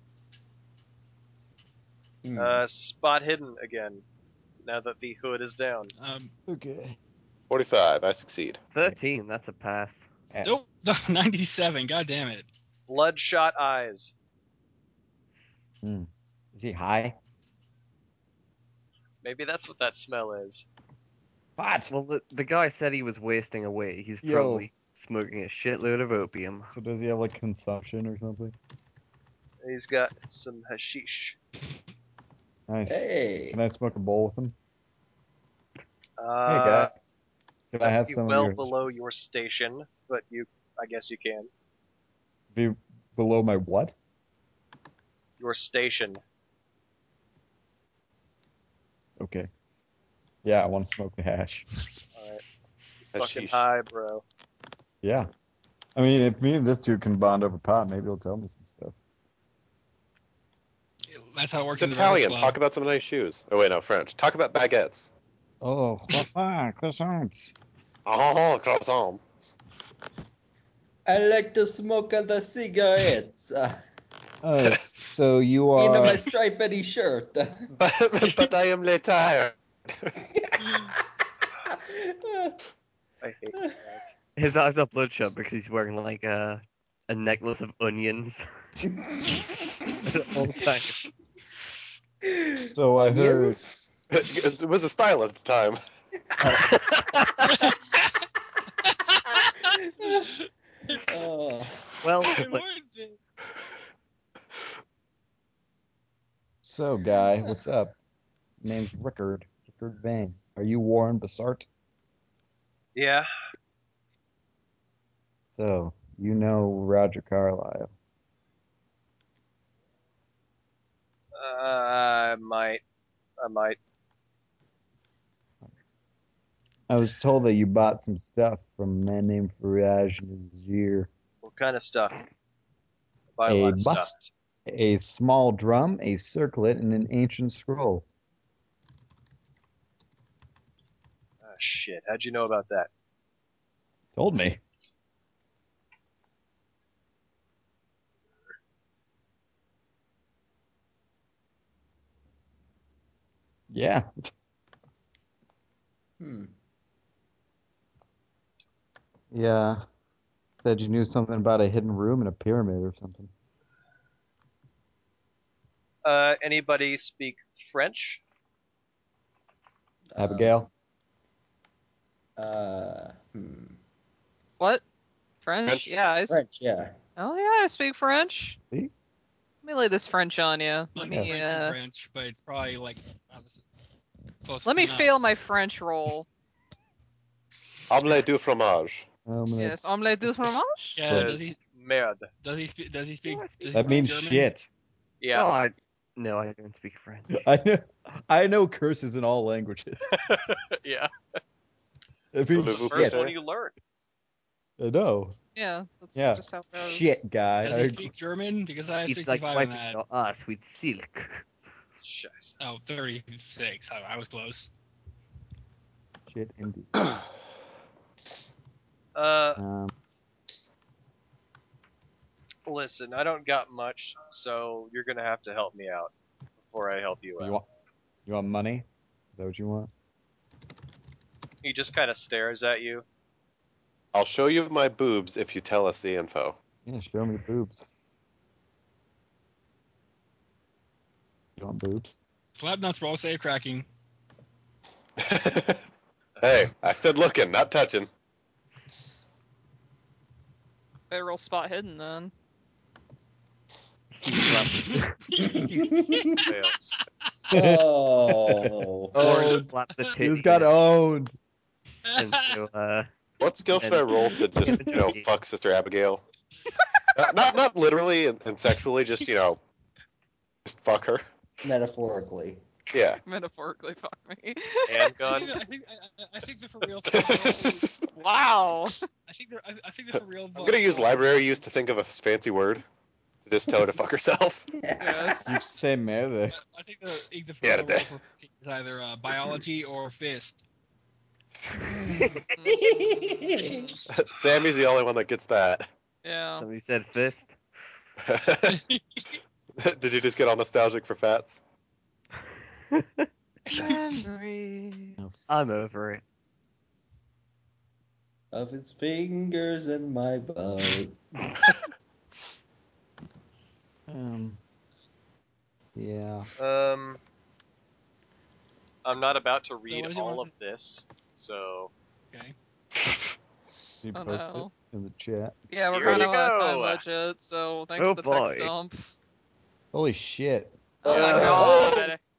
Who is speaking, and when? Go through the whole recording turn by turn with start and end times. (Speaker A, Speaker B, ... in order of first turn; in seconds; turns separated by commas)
Speaker A: 2.2-2.6, Speaker B: 2.4-4.0, Speaker B: 4.6-5.9, Speaker C: 6.0-6.3, Speaker D: 6.5-7.0, Speaker E: 7.5-8.6, Speaker F: 8.7-10.1, Speaker C: 10.4-12.5, Speaker B: 12.9-14.1, Speaker D: 15.8-17.2, Speaker B: 19.2-20.6, Speaker D: 21.6-21.9, Speaker F: 21.9-26.7, Speaker D: 24.2-24.7, Speaker D: 26.7-28.5, Speaker B: 29.6-31.4, Speaker D: 32.7-34.5, Speaker A: 32.9-33.6, Speaker B: 36.2-36.9, Speaker D: 36.5-36.9, Speaker D: 37.7-38.7, Speaker B: 37.8-41.5, Speaker D: 42.5-43.9, Speaker B: 45.4-46.2, Speaker D: 49.2-49.5, Speaker D: 50.4-51.6, Speaker B: 52.1-52.4, Speaker B: 53.1-54.2, Speaker E: 53.1-53.7, Speaker D: 55.0-55.3, Speaker D: 56.0-58.9, Speaker C: 61.1-62.6, Speaker E: 61.8-65.1, Speaker D: 65.6-67.5, Speaker E: 68.0-69.2, Speaker A: 71.0-73.8, Speaker D: 74.4-76.2, Speaker A: 75.8-77.8, Speaker E: 77.8-80.1, Speaker C: 78.2-78.5, Speaker A: 80.2-80.5, Speaker A: 81.7-82.6, Speaker B: 83.2-84.1, Speaker F: 84.3-88.5, Speaker F: 90.0-91.0, Speaker A: 92.2-93.9, Speaker D: 92.7-93.6, Speaker E: 94.1-95.8, Speaker F: 96.5-97.4, Speaker C: 97.5-97.7, Speaker C: 98.9-101.0, Speaker A: 100.0-100.3, Speaker A: 101.0-101.8, Speaker F: 102.0-102.6, Speaker C: 102.2-103.2, Speaker D: 106.6-107.9, Speaker D: 108.6-111.7, Speaker B: 112.9-113.3, Speaker D: 115.5-117.9, Speaker B: 121.3-122.8, Speaker B: 123.4-123.8, Speaker D: 126.9-131.1, Speaker B: 131.4-132.2, Speaker B: 133.3-134.1, Speaker D: 133.4-138.0, Speaker B: 141.4-142.9, Speaker D: 144.2-144.6, Speaker D: 153.7-154.1, Speaker A: 156.2-156.5, Speaker D: 159.3-159.8, Speaker D: 160.6-163.3, Speaker B: 166.0-168.2, Speaker A: 170.1-170.7, Speaker D: 170.2-170.7, Speaker A: 172.4-173.8, Speaker G: 175.4-176.4, Speaker E: 175.6-175.9, Speaker A: 176.3-176.9, Speaker G: 177.2-178.6, Speaker G: 179.6-181.8, Speaker C: 180.9-183.6, Speaker C: 184.4-185.1, Speaker G: 184.6-186.3, Speaker E: 187.9-189.1, Speaker D: 189.2-189.8, Speaker G: 189.6-191.0, Speaker C: 190.9-191.6, Speaker D: 191.0-191.3, Speaker B: 191.0-192.3, Speaker C: 192.4-194.5, Speaker F: 193.3-194.1, Speaker D: 193.7-194.7, Speaker B: 195.2-195.5, Speaker F: 195.3-197.4, Speaker D: 197.3-200.1, Speaker B: 200.1-201.1, Speaker D: 202.3-203.2, Speaker E: 202.5-203.3, Speaker B: 202.5-203.7, Speaker D: 204.8-205.4, Speaker G: 205.5-207.2, Speaker D: 206.1-208.1, Speaker C: 207.6-210.0, Speaker F: 209.1-211.5, Speaker B: 212.0-212.6, Speaker C: 212.6-214.7, Speaker D: 216.3-217.0, Speaker B: 219.1-219.6, Speaker D: 219.6-219.9, Speaker B: 222.7-226.1, Speaker B: 226.6-227.6, Speaker D: 227.4-227.7, Speaker D: 228.2-229.9, Speaker B: 231.6-233.0, Speaker E: 234.1-236.6, Speaker D: 236.8-237.8, Speaker D: 241.6-242.1, Speaker C: 242.6-243.9, Speaker E: 245.2-245.8, Speaker E: 246.4-248.1, Speaker G: 251.1-252.3, Speaker F: 254.1-255.2, Speaker C: 254.4-255.7, Speaker A: 255.4-256.4, Speaker C: 256.2-256.5, Speaker E: 256.5-256.7, Speaker B: 256.6-256.9, Speaker D: 257.5-257.8, Speaker A: 257.5-259.2, Speaker D: 258.5-261.3, Speaker F: 259.1-260.7, Speaker C: 259.2-260.2, Speaker C: 262.1-262.6, Speaker F: 262.2-263.1, Speaker E: 263.4-266.2, Speaker F: 263.7-265.3, Speaker E: 267.1-269.6, Speaker E: 270.6-271.2, Speaker A: 271.6-272.6, Speaker E: 272.9-273.2, Speaker G: 273.2-275.1, Speaker B: 274.9-275.6, Speaker C: 275.3-277.9, Speaker E: 277.1-278.0, Speaker G: 278.1-279.0, Speaker C: 279.3-281.6, Speaker E: 280.1-282.8, Speaker E: 283.4-284.6, Speaker A: 284.8-285.4, Speaker G: 285.0-285.7, Speaker D: 285.4-286.6, Speaker C: 286.5-290.6, Speaker E: 287.6-288.1, Speaker A: 292.0-294.0, Speaker G: 292.5-292.8, Speaker G: 293.6-293.9, Speaker E: 294.1-295.9, Speaker G: 296.2-296.6, Speaker F: 296.5-297.6, Speaker E: 298.2-298.8, Speaker C: 298.7-299.4, Speaker E: 299.8-301.6, Speaker F: 302.9-303.3, Speaker C: 303.7-304.0, Speaker G: 303.7-305.2, Speaker D: 305.2-305.5, Speaker F: 305.5-306.2, Speaker A: 308.5-311.2, Speaker D: 314.1-314.6, Speaker D: 315.9-316.5, Speaker B: 316.6-317.2, Speaker B: 319.0-321.9, Speaker C: 319.9-320.5, Speaker D: 324.0-325.6, Speaker G: 324.1-324.7, Speaker G: 325.7-329.1, Speaker B: 325.9-327.0, Speaker F: 328.0-328.7, Speaker D: 329.9-330.7, Speaker G: 331.0-332.2, Speaker A: 331.0-332.1